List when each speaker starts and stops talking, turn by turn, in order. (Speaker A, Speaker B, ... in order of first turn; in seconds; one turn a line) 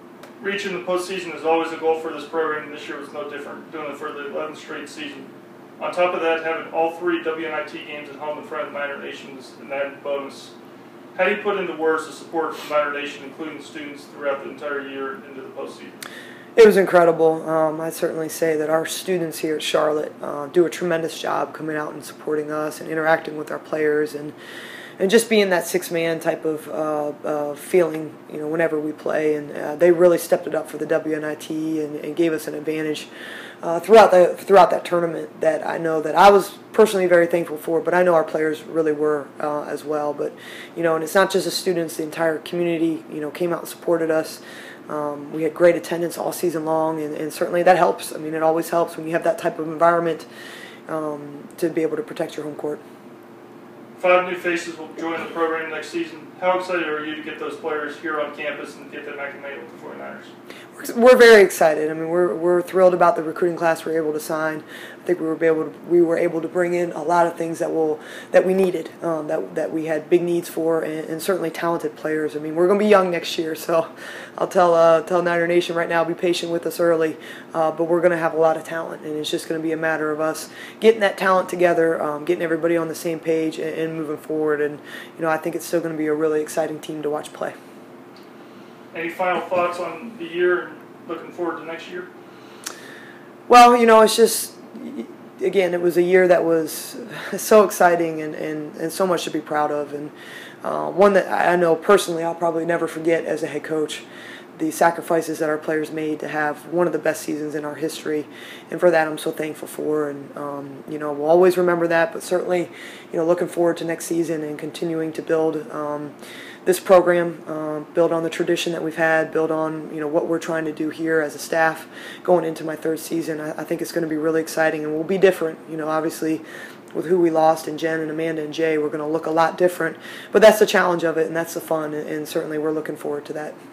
Speaker A: 0.4-10.5
Speaker A: 11.2-16.0
Speaker B: 16.6-24.4
Speaker B: 25.0-33.1
Speaker B: 33.6-50.3
Speaker B: 50.9-52.8
Speaker A: 54.0-60.3
Speaker B: 60.8-87.5
Speaker A: 88.9-92.1
Speaker B: 93.5-104.0
Speaker B: 104.6-116.1
Speaker B: 116.6-133.6